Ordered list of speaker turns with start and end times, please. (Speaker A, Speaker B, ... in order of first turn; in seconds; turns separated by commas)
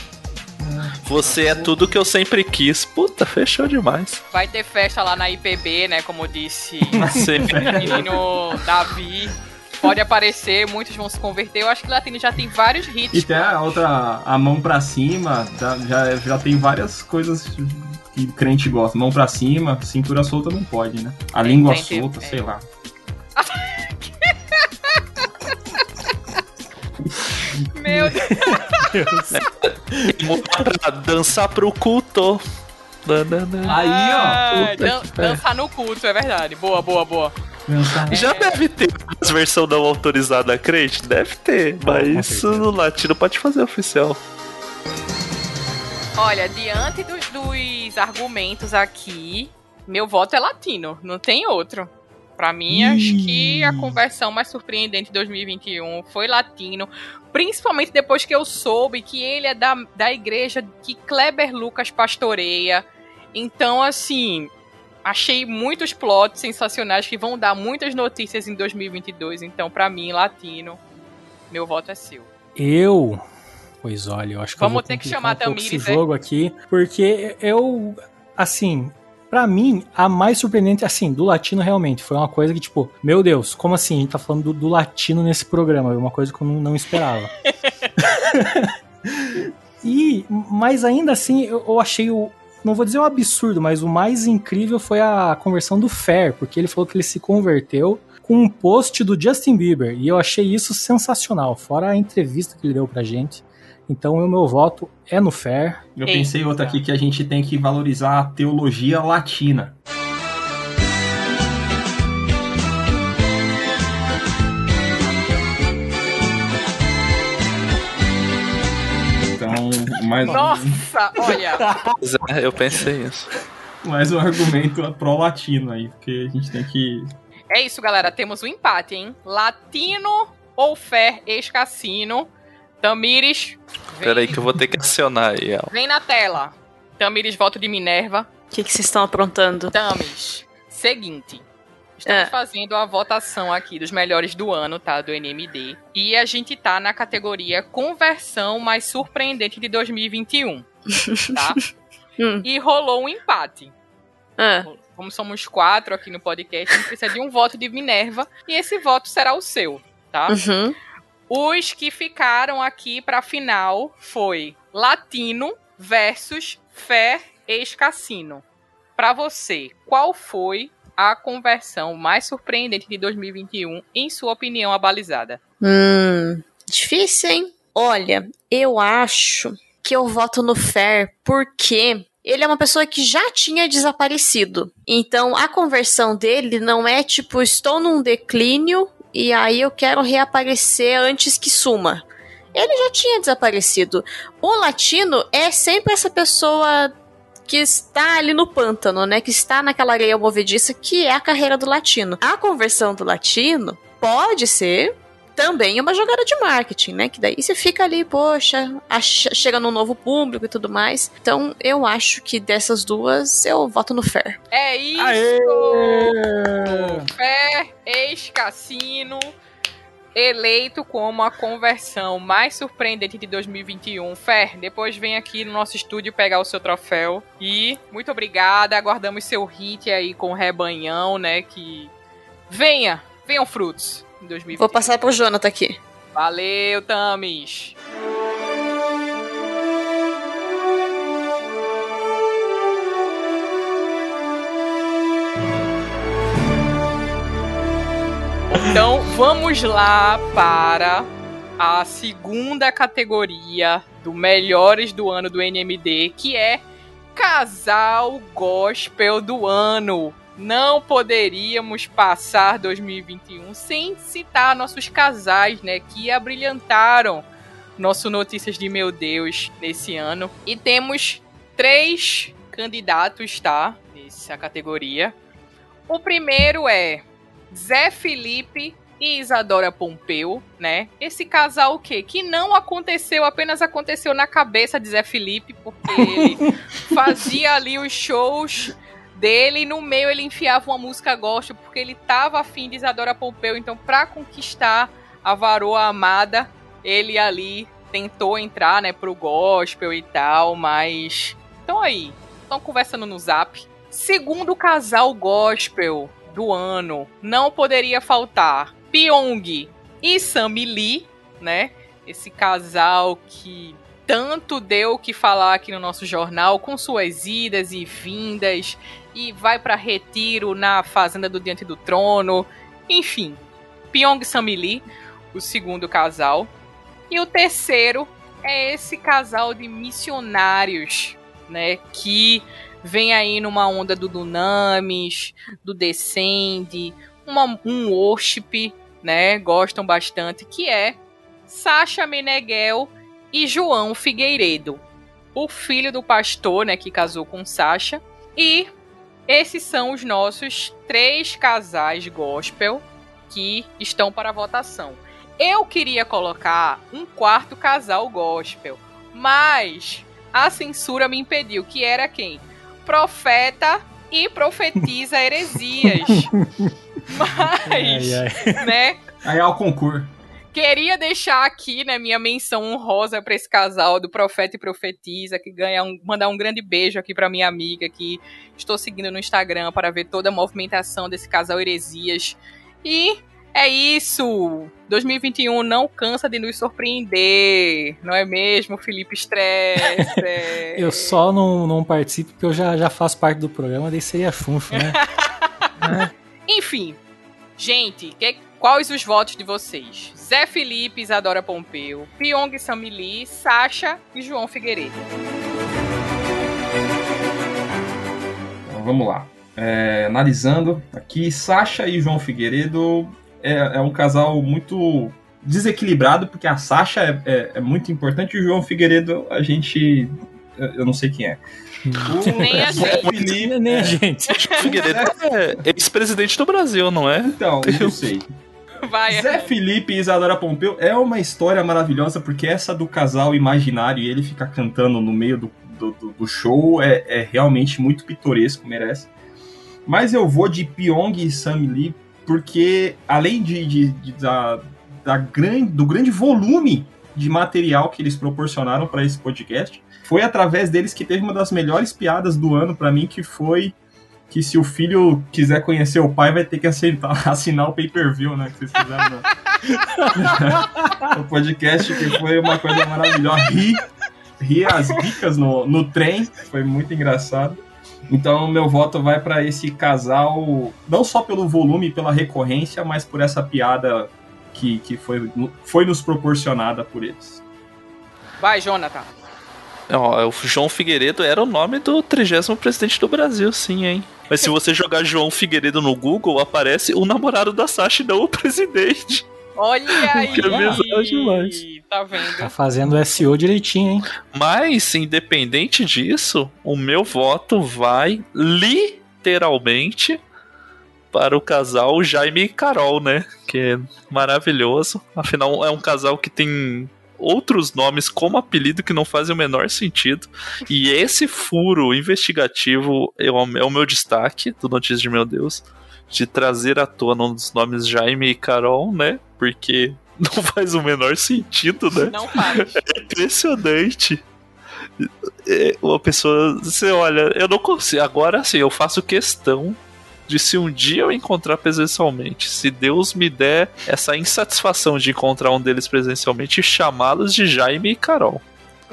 Speaker A: 0.6-1.7, Speaker B: 1.1-4.2, Speaker C: 4.3-7.1, Speaker B: 6.9-8.1, Speaker D: 7.0-7.3, Speaker A: 7.3-8.2, Speaker C: 7.7-13.8, Speaker A: 13.1-22.6, Speaker C: 21.4-22.5, Speaker C: 23.4-25.0, Speaker C: 27.7-28.9, Speaker D: 27.9-29.4, Speaker B: 30.0-32.4, Speaker B: 33.0-33.8, Speaker C: 33.6-37.3, Speaker A: 33.7-34.7, Speaker D: 34.5-35.4, Speaker A: 37.7-38.2, Speaker B: 38.1-44.2, Speaker C: 38.1-38.6, Speaker D: 41.8-42.7, Speaker C: 46.2-64.5, Speaker D: 52.7-54.0, Speaker C: 65.0-70.8, Speaker C: 71.5-72.3, Speaker D: 72.6-73.2, Speaker D: 73.8-87.3, Speaker C: 74.6-76.0, Speaker D: 88.1-88.7, Speaker D: 89.8-105.8, Speaker A: 106.0-109.8, Speaker C: 106.1-106.8, Speaker A: 119.3-120.8, Speaker C: 120.3-121.7, Speaker B: 121.9-123.3, Speaker A: 123.8-127.1, Speaker C: 127.5-132.3, Speaker C: 132.8-134.5, Speaker B: 134.0-135.7, Speaker C: 135.7-138.3, Speaker E: 138.5-139.8, Speaker C: 139.7-141.4, Speaker C: 142.0-150.7, Speaker E: 142.1-142.3, Speaker E: 150.9-151.7, Speaker E: 152.2-152.5, Speaker C: 152.4-153.7, Speaker E: 154.4-154.7, Speaker C: 154.7-160.3, Speaker E: 160.3-160.8, Speaker C: 161.3-168.4, Speaker C: 169.0-175.4, Speaker E: 175.6-196.9, Speaker C: 192.5-192.9, Speaker E: 197.5-214.4, Speaker C: 214.5-219.3, Speaker D: 215.0-217.1, Speaker C: 220.2-231.9, Speaker C: 232.5-235.0, Speaker E: 234.6-235.8, Speaker C: 236.1-237.8, Speaker C: 248.5-256.6, Speaker C: 257.2-267.3, Speaker C: 267.8-275.1, Speaker C: 275.9-323.4, Speaker D: 285.9-286.2, Speaker C: 323.9-326.5, Speaker C: 327.1-344.8, Speaker C: 345.4-348.7, Speaker C: 349.3-366.3, Speaker D: 366.1-366.7, Speaker C: 367.1-369.0, Speaker D: 367.7-368.6, Speaker A: 369.2-370.1, Speaker C: 370.5-391.2, Speaker D: 390.8-395.0, Speaker C: 394.8-395.3, Speaker D: 395.8-396.1, Speaker C: 396.5-397.0, Speaker C: 397.6-405.0, Speaker A: 408.7-421.4, Speaker D: 421.9-424.3, Speaker A: 422.0-424.0, Speaker C: 422.4-423.1, Speaker B: 424.3-428.0, Speaker A: 424.6-425.2, Speaker A: 427.2-428.3, Speaker C: 428.8-429.5, Speaker A: 429.1-439.1, Speaker A: 439.9-453.8, Speaker A: 454.3-459.3, Speaker A: 460.1-463.8, Speaker A: 464.4-477.4, Speaker C: 478.4-479.1, Speaker B: 479.9-489.3, Speaker C: 489.6-492.5, Speaker B: 490.2-490.9, Speaker D: 490.3-491.6, Speaker D: 492.4-494.1, Speaker B: 494.3-500.2, Speaker B: 501.1-524.2, Speaker C: 522.0-522.8, Speaker B: 525.0-538.4